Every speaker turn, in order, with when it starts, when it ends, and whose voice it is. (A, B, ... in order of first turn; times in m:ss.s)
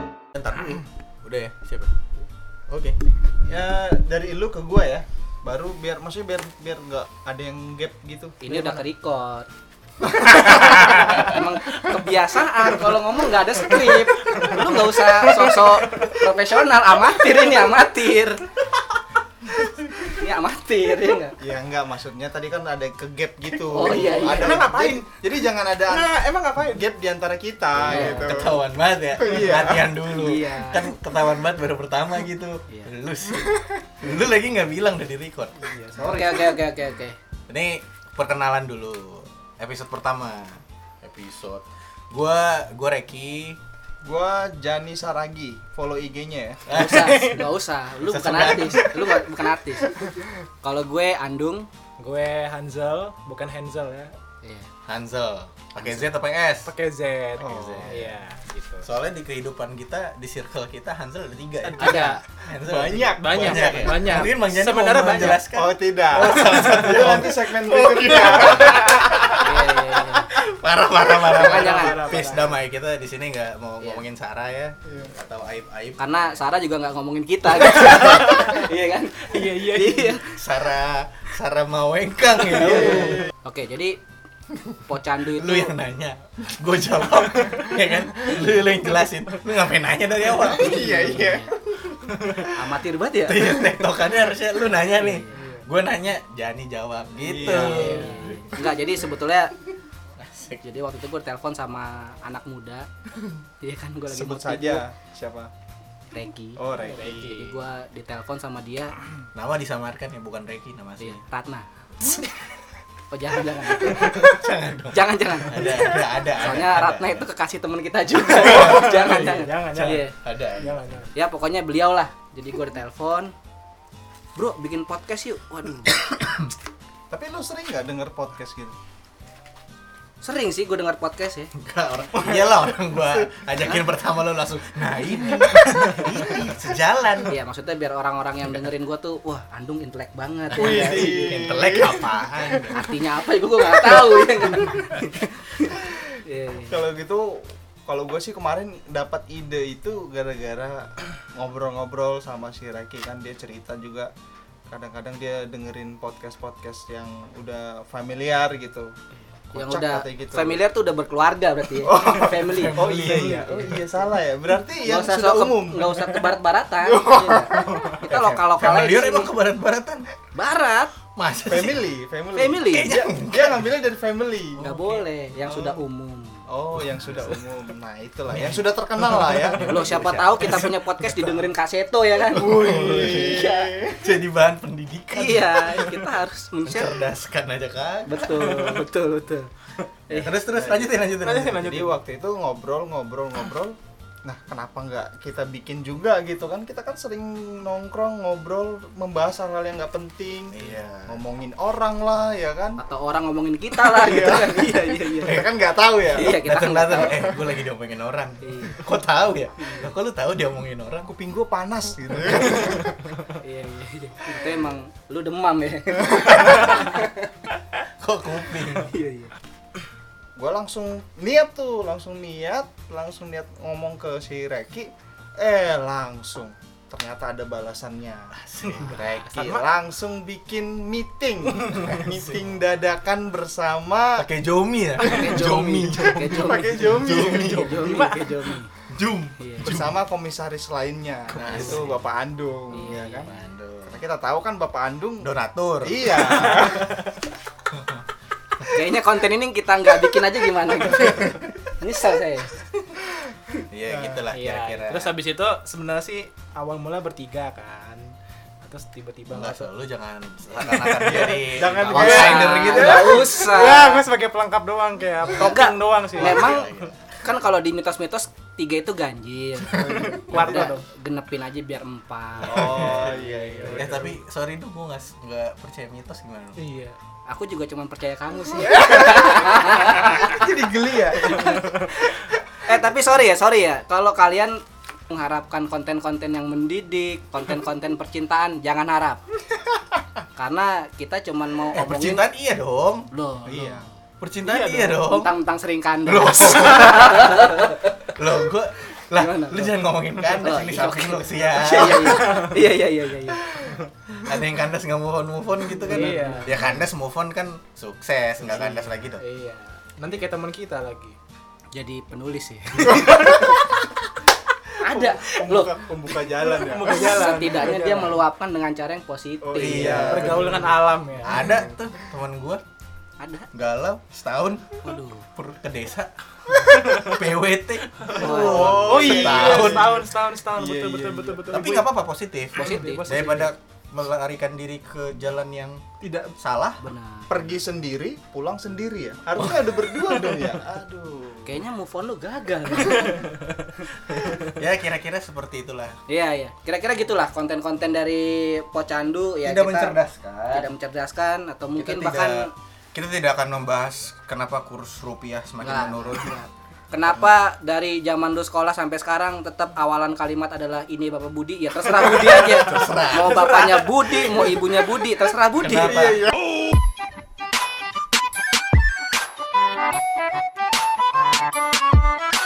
0:00.3-0:01.9 A
0:02.7-0:03.0 A
0:03.4-0:08.4 B
0:08.4-0:09.5 C
0:10.2-0:11.4 A
0:10.2-0:18.4 C
0:19.9-0:21.4 C
0:21.4-0:28.6 B
0:23.7-0:24.9 C
0:24.5-0:24.8 D
0:27.8-0:28.4 C
0:27.9-0:35.7 A
0:29.2-0:29.9 B
0:30.1-0:30.9 C
0:35.6-0:36.5 D
0:36.0-0:37.2 C
0:37.5-0:43.6 A
0:44.0-0:46.6 B
0:46.7-0:49.2 A
0:46.7-0:49.9 C
0:50.6-0:51.7 C
0:52.0-0:54.2 D
0:54.4-0:54.7 C
0:54.9-0:56.7 A
0:56.6-0:58.9 D
0:57.4-0:58.0 B
0:57.4-0:58.1 A
0:58.8-1:16.4 A
1:01.6-1:02.2 D
1:02.6-1:04.3 B
1:03.0-1:05.4 D
1:05.4-1:09.4 B
1:09.2-1:10.3 C
1:11.3-1:12.2 C
1:11.4-1:12.6 D
1:16.0-1:20.3 C
1:18.0-1:18.4 D
1:19.3-1:20.2 D
1:20.2-1:23.3 A
1:22.4-1:24.0 C
1:24.8-1:25.8 C
1:25.3-1:31.2 A
1:30.5-1:31.5 C
1:30.6-1:31.5 B
1:32.0-1:32.5 A
1:32.4-1:33.6 C
1:33.3-1:38.9 A
1:34.9-1:35.4 C
1:35.4-1:35.6 D
1:37.2-1:38.1 B
1:37.5-1:39.6 C
1:37.7-1:38.4 D
1:40.2-1:40.6 A
1:40.6-1:42.9 C
1:43.6-1:44.8 C
1:44.1-1:45.5 B
1:46.1-1:49.0 C
1:46.6-1:47.5 B
1:46.8-1:47.4 D
1:49.3-1:51.2 A
1:51.0-1:51.7 C
1:53.1-1:54.4 C
1:53.8-1:57.2 A
1:54.9-2:00.2 C
1:58.4-2:00.0 D
1:59.7-2:00.8 A
2:00.6-2:01.1 D
2:01.1-2:03.3 C
2:04.4-2:06.0 C
2:07.1-2:08.8 B
2:10.2-2:11.5 C
2:11.5-2:17.4 A
2:17.3-2:21.2 C
2:20.5-2:22.9 A
2:20.6-2:22.3 B
2:22.7-2:26.8 C
2:24.6-2:25.1 A
2:26.7-2:34.1 B
2:34.7-2:38.9 B
2:39.5-2:40.6 B
2:39.5-2:42.8 C
2:41.8-2:46.3 B
2:42.4-2:43.4 A
2:43.0-2:43.9 D
2:44.8-2:49.3 C
2:46.8-2:48.0 B
2:48.1-2:50.1 A
2:50.3-2:51.0 C
2:51.2-2:51.8 A
2:51.4-2:54.7 B
2:52.4-2:53.0 C
2:52.7-2:53.7 A
2:54.6-2:56.4 C
2:54.6-2:55.0 A
2:55.4-2:55.8 B
2:56.5-3:00.1 B
2:58.3-2:58.6 A
2:59.5-3:00.7 A
2:59.6-3:02.7 C
3:02.3-3:04.2 B
3:02.4-3:08.8 A
3:05.1-3:07.1 C
3:08.1-3:09.5 C
3:10.1-3:10.4 C
3:10.1-3:11.7 A
3:10.5-3:10.9 B
3:11.1-3:12.0 D
3:11.6-3:22.8 B
3:20.5-3:21.2 A
3:22.8-3:25.5 C
3:23.8-3:26.4 B
3:26.1-3:27.3 C
3:26.2-3:31.1 A
3:28.4-3:28.9 C
3:29.6-3:29.9 C
3:31.0-3:32.9 B
3:33.3-3:37.3 C
3:38.0-3:38.9 A
3:38.8-3:39.3 C
3:40.4-3:54.3 B
3:48.3-3:49.3 A
3:48.8-3:49.7 D
3:51.5-3:52.0 D
3:51.7-3:52.5 A
3:54.2-3:57.9 A
3:55.0-3:58.7 C
3:55.0-3:55.4 D
3:56.1-3:58.5 D
3:56.7-3:57.3 B
3:58.9-3:59.9 A
3:59.4-3:59.8 C
3:59.6-4:03.3 B
4:01.3-4:01.9 A
4:01.4-4:02.0 C
4:02.7-4:03.3 C
4:03.2-4:04.0 A
4:03.9-4:05.3 B
4:05.2-4:06.6 A
4:05.8-4:07.1 B
4:06.2-4:07.0 D
4:07.7-4:08.0 A
4:08.7-4:12.6 C
4:10.9-4:11.3 A
4:13.7-4:15.2 A
4:13.9-4:14.2 B
4:14.3-4:19.7 D
4:19.3-4:23.3 A
4:20.6-4:26.6 D
4:21.6-4:22.2 B
4:21.9-4:24.0 C
4:25.4-4:26.7 C
4:26.2-4:27.0 A
4:27.2-4:33.9 C
4:29.7-4:30.7 B
4:30.1-4:30.8 D
4:32.4-4:34.1 B
4:32.5-4:33.1 A
4:33.0-4:34.1 D
4:33.7-4:36.6 A
4:36.6-4:37.0 D
4:37.3-4:40.5 C
4:38.6-4:41.6 B
4:41.1-4:49.2 C
4:41.4-4:42.0 D
4:50.4-4:52.2 C
4:51.7-4:53.1 A
4:53.1-4:53.9 C
4:53.4-4:53.8 B
4:54.2-4:55.3 A
4:54.4-4:55.1 D
4:55.0-4:58.2 C
4:56.1-4:57.6 A
4:58.1-5:02.4 A
4:59.1-4:59.8 C
5:00.4-5:03.5 C
5:02.0-5:02.6 D
5:04.2-5:09.2 A
5:05.8-5:06.8 D
5:05.9-5:06.5 C
5:08.4-5:11.2 D
5:11.7-5:13.8 C
5:13.0-5:13.3 D
5:14.8-5:15.8 C
5:14.9-5:17.2 B
5:16.5-5:18.2 D
5:16.8-5:20.4 C
5:19.4-5:21.6 B
5:19.5-5:20.6 A
5:19.6-5:21.5 D
5:21.2-5:22.6 A
5:23.2-5:23.5 C
5:23.5-5:24.8 A
5:24.8-5:25.3 C
5:25.4-5:30.0 A
5:28.1-5:29.0 C
5:28.2-5:31.5 B
5:28.3-5:31.9 D
5:31.5-5:35.8 A
5:32.6-5:33.5 D
5:32.6-5:33.2 C
5:36.0-5:36.4 D
5:36.4-5:36.8 A
5:36.8-5:37.4 C
5:37.3-5:41.6 B
5:41.4-5:43.4 C
5:44.4-5:46.0 A
5:46.1-5:50.0 C
5:49.4-5:50.7 A
5:50.5-5:52.5 C
5:51.8-5:56.4 A
5:55.6-6:06.2 C
6:02.1-6:03.9 A
6:05.6-6:06.3 A
6:05.9-6:06.4 B